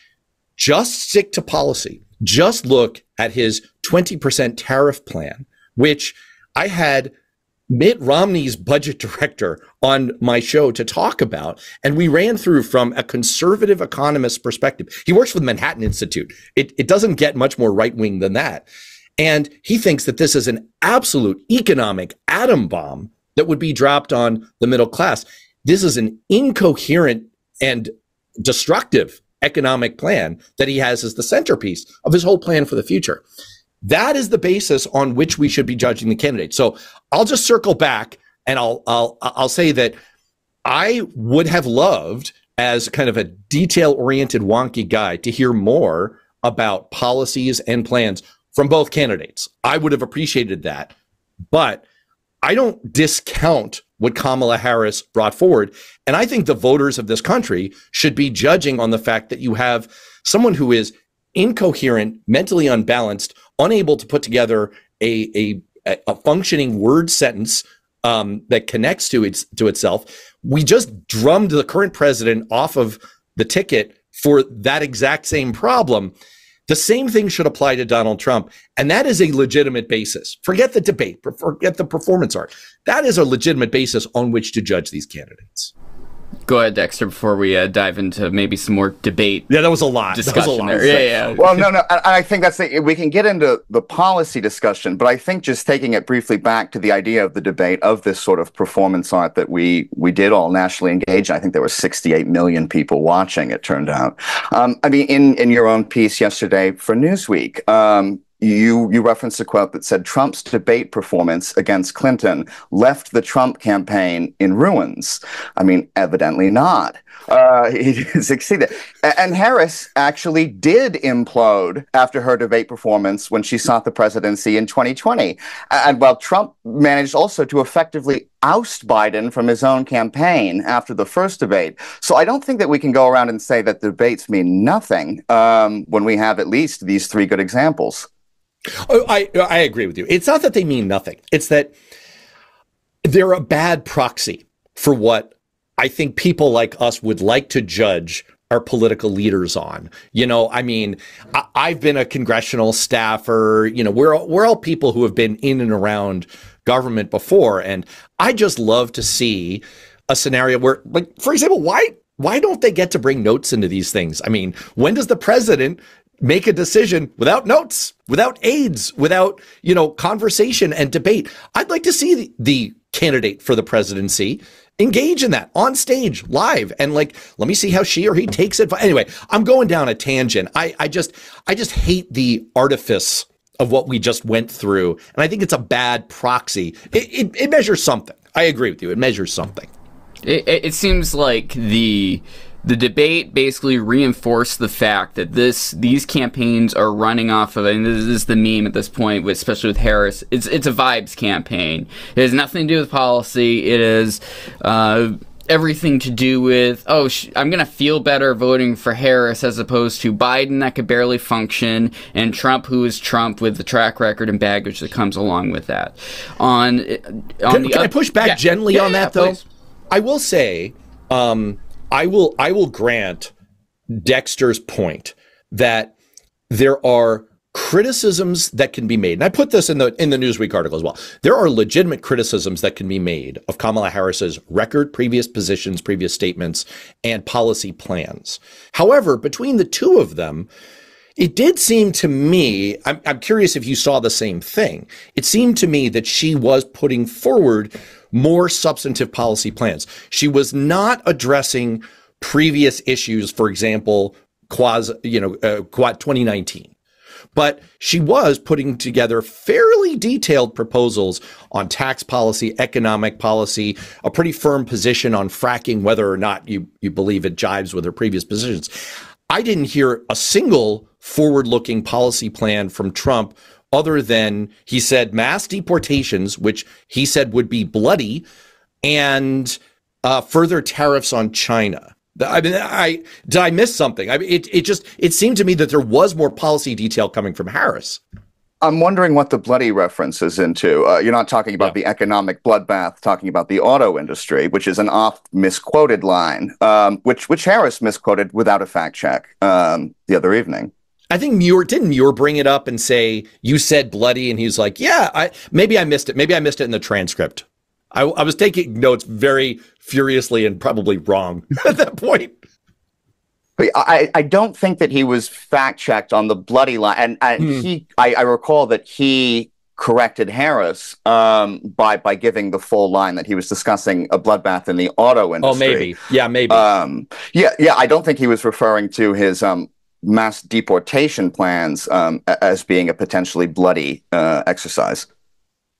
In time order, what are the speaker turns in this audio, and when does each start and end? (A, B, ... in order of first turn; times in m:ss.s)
0:00.6-0:07.1 A
0:07.7-0:18.6 A
0:19.2-0:27.9 A
0:28.4-0:33.2 A
0:33.8-0:40.0 A
0:40.6-0:50.9 A
0:51.5-0:51.8 A
0:52.4-1:16.1 A
1:16.7-1:25.7 A
1:26.5-1:29.5 B
1:29.5-1:31.1 A
1:30.1-1:31.6 B
1:31.4-2:18.1 C
2:18.8-2:21.7 A
2:23.0-3:09.7 A
3:10.2-3:39.4 B
3:37.5-3:39.4 A
3:39.9-3:43.3 A
3:43.9-3:45.9 A
3:46.5-4:00.5 A
4:01.2-4:16.7 A
4:17.4-4:28.7 A
4:29.3-4:38.2 A
4:38.8-4:48.0 A
4:48.6-5:00.7 C
5:01.1-5:12.3 A
5:13.6-5:25.9 C
5:17.4-5:17.6 A
5:25.4-5:26.6 A
5:26.5-5:35.0 C